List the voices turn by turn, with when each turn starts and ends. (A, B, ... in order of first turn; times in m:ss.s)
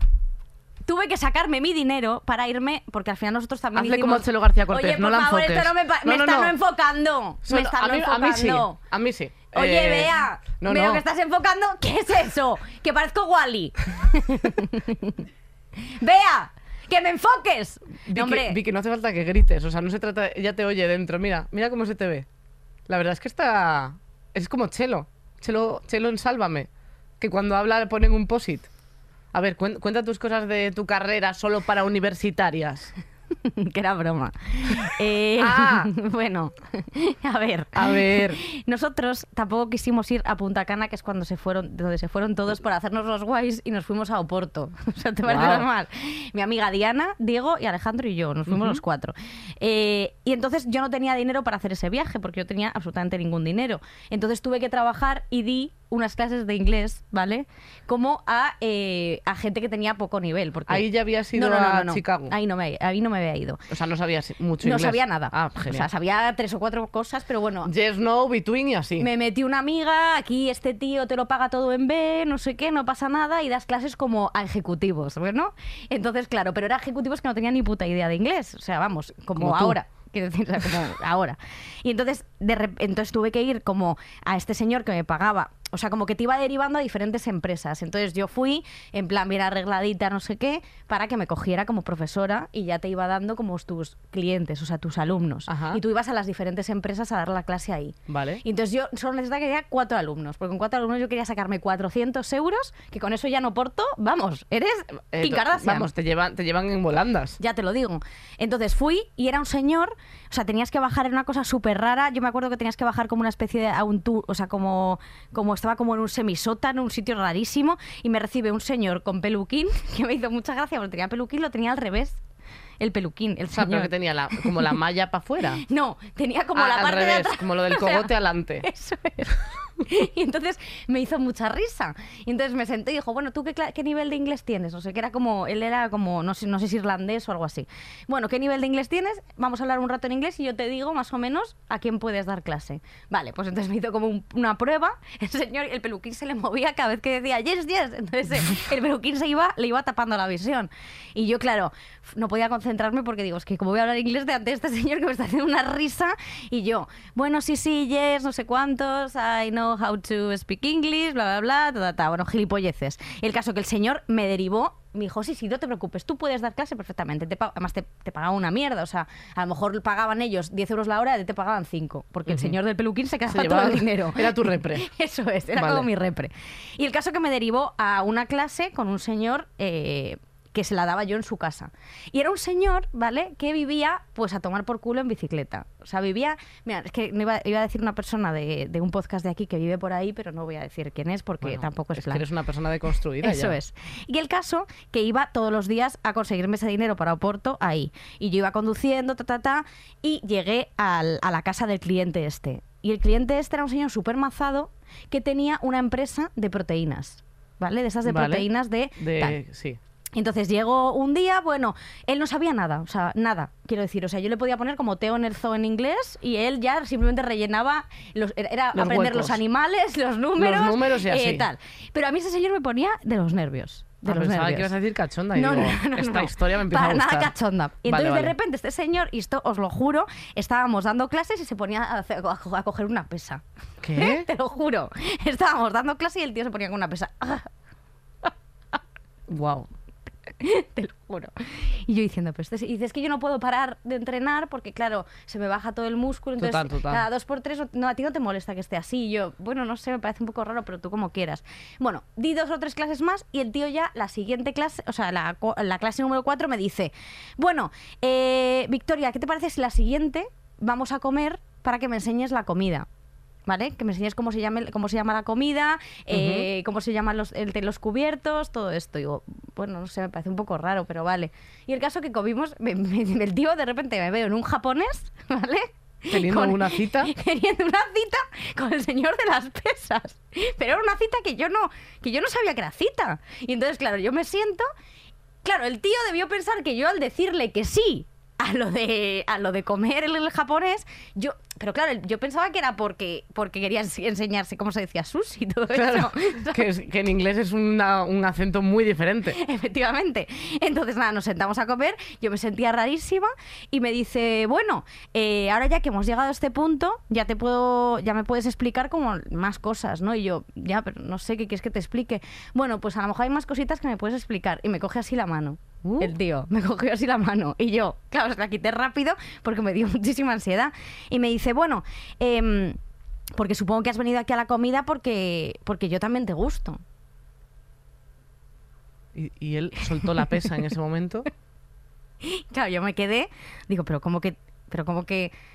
0:00.8-0:08.8 A
0:03.7-0:06.5 B
0:07.4-0:11.0 B
0:09.5-0:15.2 A
0:15.8-0:18.6 A
0:18.1-0:22.2 B
0:22.9-0:26.7 B
0:27.2-0:28.7 B
0:29.3-0:32.9 B
0:33.4-1:03.6 A
0:35.4-0:35.9 B
0:37.7-0:38.4 B
0:45.3-0:45.6 B
0:48.5-0:48.8 B
1:00.7-1:02.3 B
1:03.7-1:05.9 B
1:04.6-1:07.7 A
1:07.6-1:09.1 B
1:09.0-1:45.9 A
1:19.4-1:19.8 B
1:35.5-1:35.8 B
1:38.1-1:38.4 B
1:45.1-1:47.4 B
1:47.4-2:02.2 A
2:02.8-2:04.5 A
2:03.5-2:05.6 B
2:05.6-2:08.1 A
2:06.6-2:08.6 B
2:08.6-3:12.2 A
2:52.3-2:52.5 B
2:53.3-2:54.8 B
2:55.6-2:55.9 B
3:11.4-3:13.6 B
3:13.2-3:29.4 A
3:28.0-3:28.5 B
3:29.0-3:29.8 B
3:30.1-3:44.7 A
3:38.7-3:39.4 B
3:40.4-3:41.5 B
3:44.0-3:47.3 B
3:45.3-3:53.4 A
3:47.8-3:48.3 B
3:53.8-3:54.3 B
3:54.0-3:57.5 A
3:59.3-3:59.7 B
4:00.4-4:22.8 A
4:06.4-4:07.0 B
4:23.4-4:44.7 A
4:26.1-4:26.5 B
4:36.1-4:37.1 B
4:45.4-4:56.6 A
4:55.7-4:59.4 B
4:59.3-5:22.8 A
5:15.8-5:16.1 B
5:23.3-5:26.8 A
5:29.1-5:31.3 B
5:32.2-5:35.3 A